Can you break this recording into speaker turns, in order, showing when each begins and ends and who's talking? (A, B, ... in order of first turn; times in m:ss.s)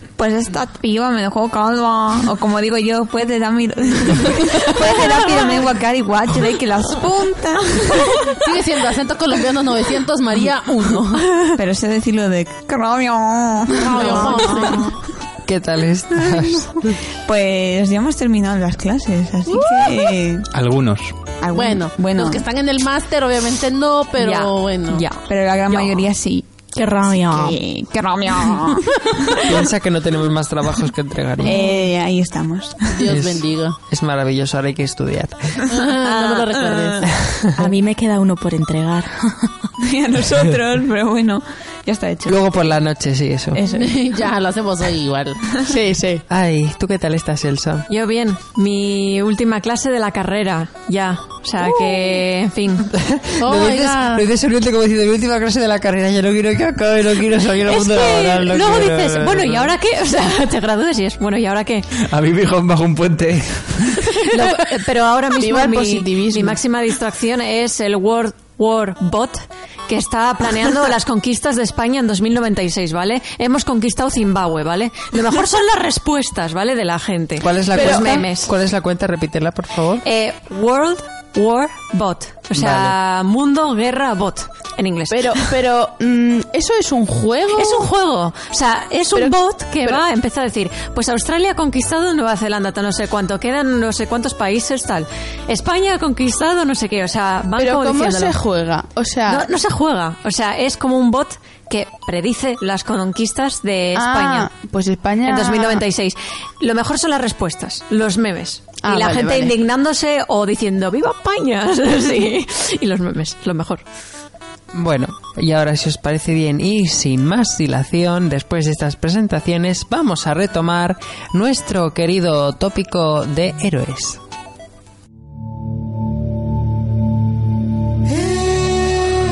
0:00.2-0:08.4 A
0:08.4-0:11.4 B
0:11.4-0:14.7 A
0:13.8-0:15.0 B
0:14.0-0:14.8 C
0:15.5-0:16.7 D
0:16.2-0:16.5 A
0:17.2-0:20.5 A
0:20.5-0:21.2 E
0:21.4-0:22.4 A
0:21.5-0:25.0 B
0:24.2-0:25.3 F
0:25.2-0:26.6 A
0:26.7-0:27.6 C
0:27.2-0:29.4 A
0:29.4-0:31.6 D
0:31.4-0:33.1 A
0:32.9-0:33.8 B
0:33.1-0:35.7 D
0:35.7-0:37.1 B
0:36.1-0:37.0 A
0:37.6-0:39.7 C
0:39.8-0:42.4 A
0:42.3-0:43.6 D
0:43.7-0:45.5 B
0:45.7-0:46.2 G
0:46.3-0:47.9 D
0:47.9-0:52.9 F
0:52.9-0:59.7 D
0:53.4-0:54.2 B
0:57.7-1:01.9 F
1:02.0-1:04.3 E
1:04.2-1:18.5 F
1:05.3-1:06.6 G
1:17.4-1:20.0 D
1:17.7-1:18.2 G
1:20.0-1:25.5 F
1:22.5-1:22.9 D
1:25.1-1:27.9 G
1:27.5-1:38.4 F
1:29.1-1:30.0 G
1:37.6-1:39.5 G
1:39.3-1:44.5 F
1:44.0-1:45.8 G
1:45.2-1:53.8 F
1:48.8-1:49.5 G
1:54.7-2:04.2 D